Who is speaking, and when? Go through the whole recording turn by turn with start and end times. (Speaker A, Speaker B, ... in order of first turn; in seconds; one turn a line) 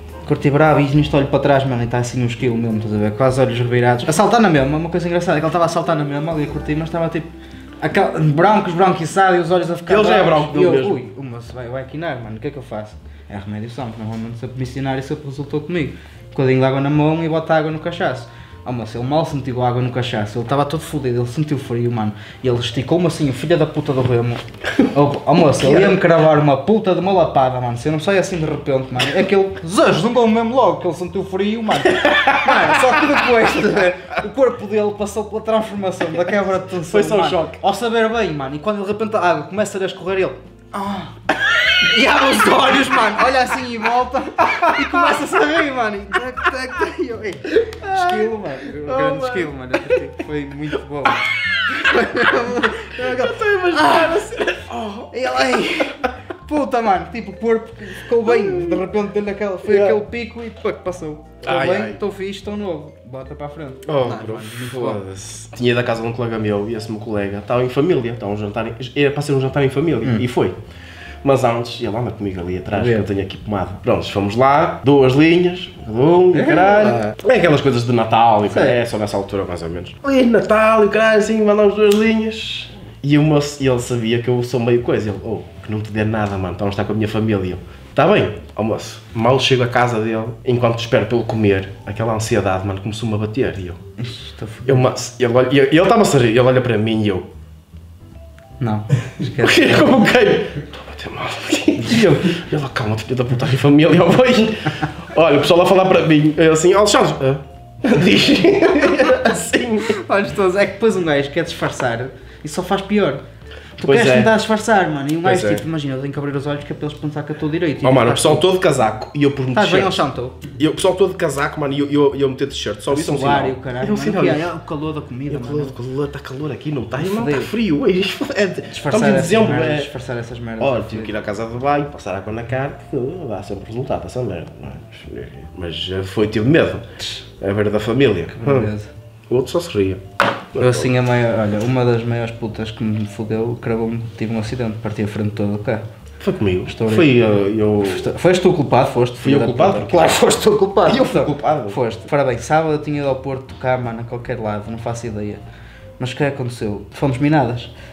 Speaker A: 0.2-54.3
Speaker B: 9.9-11.0
Speaker B: 25.6-25.9
Speaker B: 32.0-32.5
Speaker B: 36.9-37.6
Speaker B: 47.8-49.5
Speaker B: 52.9-55.7
Speaker A: 55.1-65.0
Speaker B: 58.2-58.8
Speaker B: 59.7-60.0
Speaker B: 61.4-62.0
Speaker B: 63.9-70.6
Speaker B: 71.2-93.8
Speaker A: 72.7-73.1
Speaker A: 76.3-77.2
Speaker A: 78.5-78.8
Speaker A: 94.0-94.9
Speaker B: 94.7-97.3
Speaker A: 98.6-100.0
Speaker B: 99.4-110.0
Speaker A: 101.8-102.4
Speaker A: 108.8-109.2
Speaker A: 109.9-113.2
Speaker A: 113.8-118.5
Speaker B: 113.8-114.3
Speaker B: 115.2-115.6
Speaker B: 117.8-120.0
Speaker A: 119.5-120.5
Speaker B: 120.6-124.5
Speaker A: 122.9-125.8
Speaker B: 125.3-129.9
Speaker A: 127.0-127.5
Speaker A: 128.7-131.1
Speaker B: 130.6-138.7
Speaker A: 138.4-138.9
Speaker B: 139.3-140.0
Speaker B: 140.6-140.9
Speaker A: 140.6-145.8
Speaker B: 146.2-148.1
Speaker A: 146.7-147.2
Speaker A: 147.8-155.4
Speaker B: 149.2-150.2
Speaker B: 150.8-151.8
Speaker A: 156.0-157.7